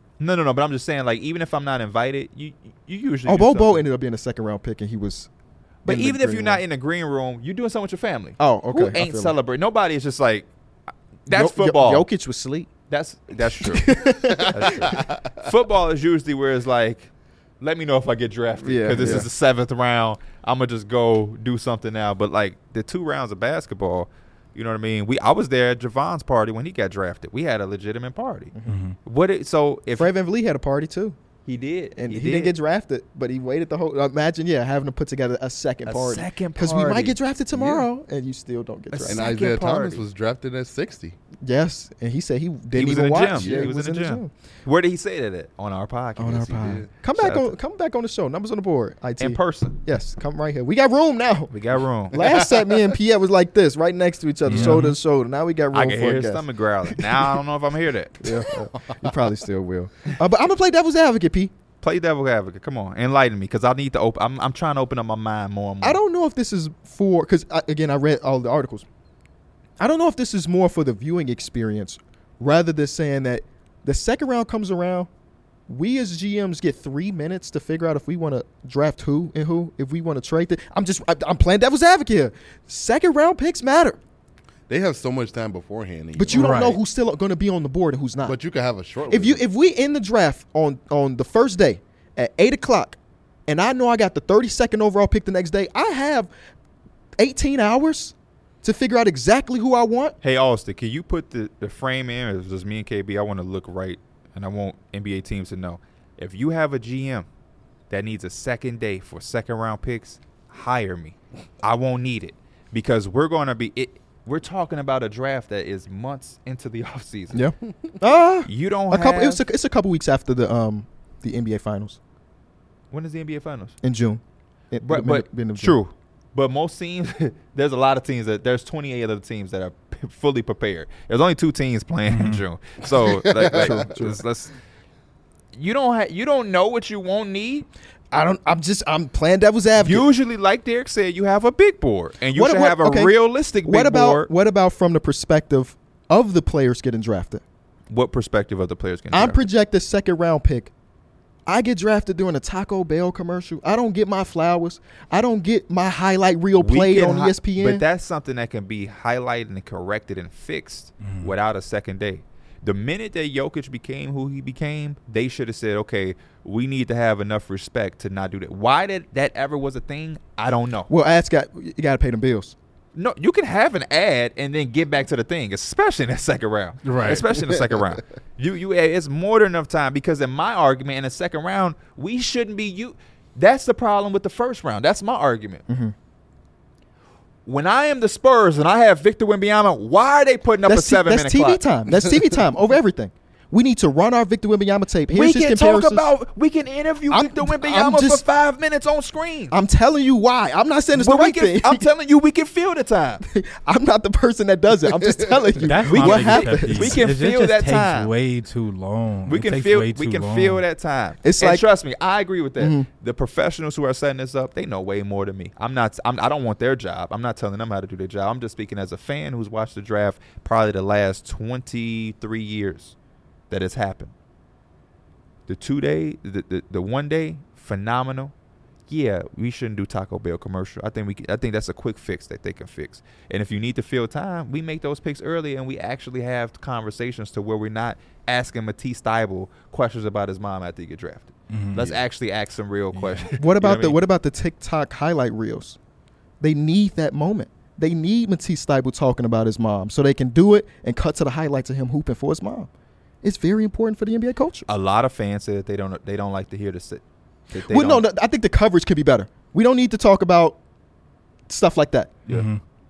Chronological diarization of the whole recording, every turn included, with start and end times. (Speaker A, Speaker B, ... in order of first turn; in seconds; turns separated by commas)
Speaker A: 0.2-3.8, Speaker B: 3.2-5.3, Speaker A: 5.8-10.5, Speaker B: 5.8-6.6, Speaker B: 8.4-9.3, Speaker A: 11.2-12.1, Speaker B: 11.3-12.7, Speaker A: 12.9-28.5, Speaker B: 13.6-14.9, Speaker C: 15.0-15.3, Speaker B: 18.6-19.3, Speaker C: 19.0-19.3, Speaker B: 28.5-28.8, Speaker D: 28.7-28.9, Speaker A: 29.0-30.1, Speaker B: 29.9-31.1, Speaker A: 31.4-32.5, Speaker B: 31.9-39.3, Speaker A: 35.9-37.1, Speaker C: 37.5-37.8, Speaker A: 38.9-40.0, Speaker C: 39.1-41.2, Speaker B: 41.4-44.3, Speaker A: 42.7-47.5, Speaker C: 43.4-43.7, Speaker B: 46.2-51.5, Speaker C: 46.6-46.9, Speaker A: 49.2-49.8, Speaker A: 51.5-52.3, Speaker B: 52.1-57.3, Speaker D: 54.5-55.0, Speaker A: 54.5-54.8, Speaker A: 55.7-58.4, Speaker B: 58.2-61.5, Speaker A: 61.8-66.0, Speaker B: 65.8-68.8, Speaker B: 69.8-75.1, Speaker B: 75.7-84.0, Speaker C: 84.7-86.7, Speaker B: 86.1-88.4, Speaker D: 86.3-86.8, Speaker C: 88.2-89.4, Speaker B: 89.1-96.3, Speaker B: 97.2-100.2, Speaker A: 100.2-107.3, Speaker A: 107.9-117.4, Speaker B: 117.3-122.0, Speaker A: 118.5-119.4, Speaker A: 122.9-123.8, Speaker B: 123.8-124.2, Speaker B: 124.7-125.8, Speaker A: 124.8-134.5, Speaker D: 132.1-132.4, Speaker C: 133.2-133.7, Speaker B: 133.4-134.2, Speaker A: 135.5-137.7, Speaker B: 138.1-140.1, Speaker A: 139.8-144.3, Speaker B: 142.3-147.4, Speaker A: 147.9-149.4, Speaker B: 149.1-150.7, Speaker B: 151.4-157.8, Speaker A: 156.6-170.9, Speaker D: 161.0-161.3, Speaker B: 170.9-172.5, Speaker A: 172.9-185.6, Speaker D: 176.8-177.2, Speaker B: 185.7-185.9, Speaker A: 187.4-191.6, Speaker B: 190.7-196.1, Speaker A: 195.1-199.5, Speaker B: 197.1-198.2, Speaker B: 199.5-201.8, Speaker A: 200.9-203.2, Speaker B: 203.2-207.0, Speaker D: 205.6-210.6, Speaker A: 205.8-208.1, Speaker A: 209.3-222.9, Speaker B: 211.2-211.6, Speaker B: 212.6-212.9, Speaker A: 223.5-224.1, Speaker A: 225.5-228.3, Speaker A: 228.9-244.0, Speaker D: 241.5-241.8, Speaker C: 241.8-242.0, Speaker D: 242.9-243.3, Speaker B: 243.4-245.8, Speaker B: 246.4-252.7, Speaker B: 253.2-254.7, Speaker A: 254.7-258.1, Speaker B: 257.7-260.6, Speaker B: 261.5-262.2, Speaker D: 262.3-262.6